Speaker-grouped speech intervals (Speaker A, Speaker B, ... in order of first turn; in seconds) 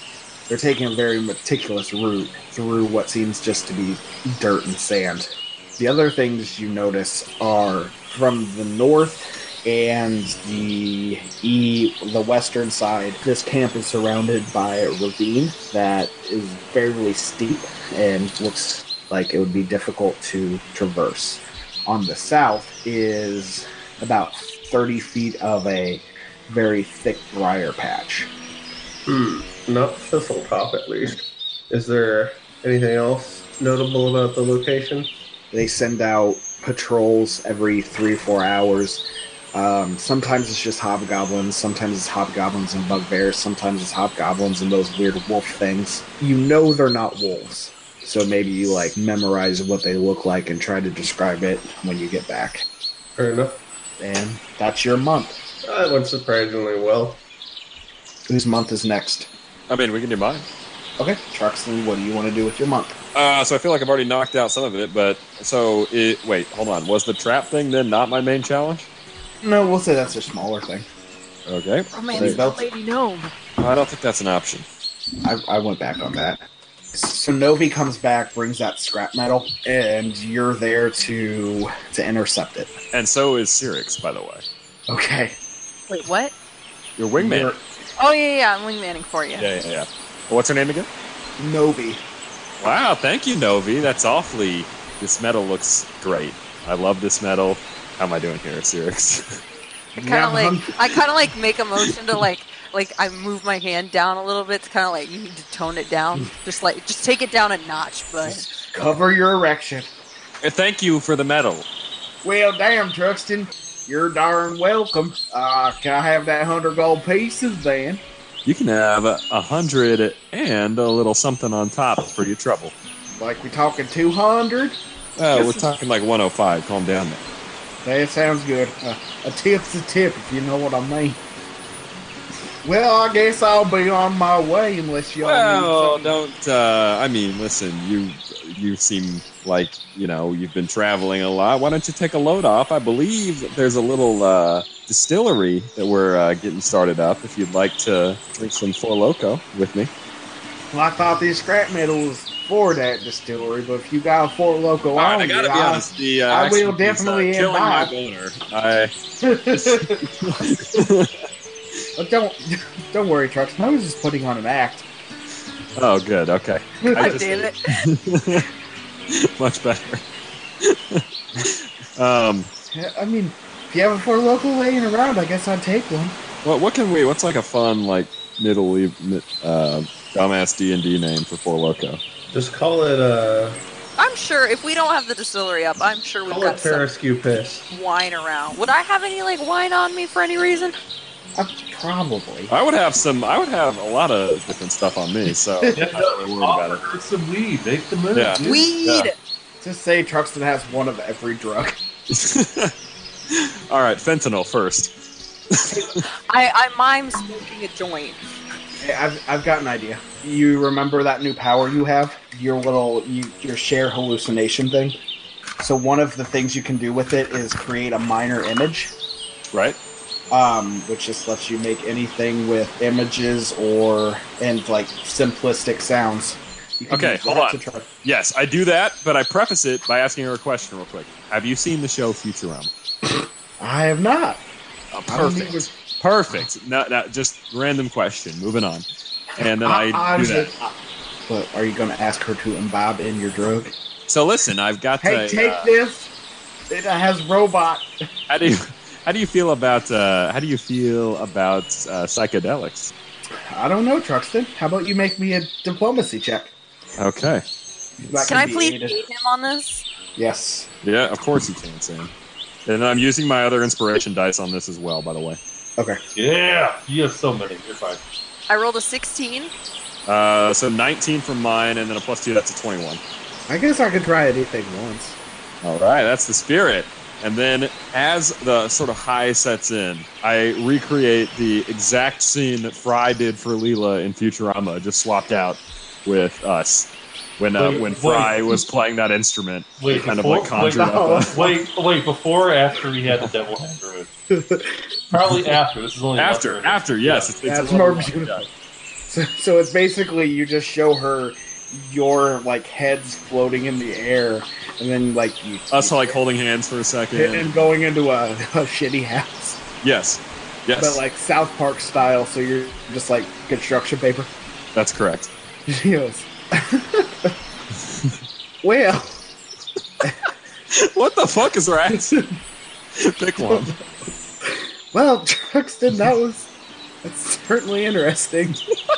Speaker A: 0.5-28.3, 35.5-52.6, 54.0-55.4, 58.3-59.3, 61.0-63.0, 69.4-70.9, 72.1-72.7, 75.2-76.4, 76.9-82.7, 84.9-85.4, 87.2-87.7, 91.4-92.0, 100.0-100.7, 108.2-109.9, 112.2-118.0, 123.1-124.8, 125.3-125.7, 127.8-131.2, 132.6-136.2, 150.7-157.9, 159.2-160.1, 162.0-164.9, 166.9-167.2, 172.7-176.2, 191.4-192.5, 199.6-201.8, 208.8-215.0, 215.6-218.9, 220.3-227.9, 233.6-234.5, 235.1-235.7, 239.4-240.7, 241.3-243.8, 245.0-246.1, 246.7-247.9, 253.5-256.5, 258.0-259.0, 260.2-260.7, 273.5-275.2, 290.7-291.4, 294.4-294.7, 297.4-298.5, 299.1-306.2, 307.1-309.6, 310.8-314.3, 315.7-317.4, 318.6-319.2, 321.9-322.2, 323.4-323.8, 324.5-326.5, 327.0-328.6
Speaker B: 29.1-35.1, 53.2-53.6, 55.6-57.2, 182.3-183.6, 186.3-187.7
Speaker C: 59.7-60.5, 63.1-68.9, 71.5-72.4, 73.6-74.7, 82.9-84.5, 87.0-87.5, 89.4-90.9, 92.6-99.4, 110.4-111.7, 118.5-122.7, 125.2-127.2, 135.2-149.9, 155.0-158.9, 159.5-161.1, 165.8-168.5, 169.1-170.0, 170.6-172.5, 176.4-182.0, 192.5-196.8, 198.1-199.1, 202.1-202.7, 203.3-204.9, 205.6-206.0, 219.5-219.8, 226.9-232.7, 234.9-238.8, 239.4-240.5, 244.1-245.7, 248.3-252.9, 257.0-257.4, 260.8-262.1, 262.7-265.4, 270.1-273.0, 275.6-291.4, 296.2-298.4, 305.7-307.5, 309.8-311.0, 314.8-315.3, 320.7-322.2, 323.0-323.7
Speaker D: 71.9-73.3, 85.9-86.3, 88.0-89.5, 100.0-108.5, 167.0-167.8, 184.0-186.9, 187.7-190.8, 198.4-199.2, 205.7-208.2, 258.2-259.9, 268.5-269.5
Speaker E: 195.7-198.7, 266.2-268.0, 287.6-288.6, 289.8-294.1, 295.1-297.3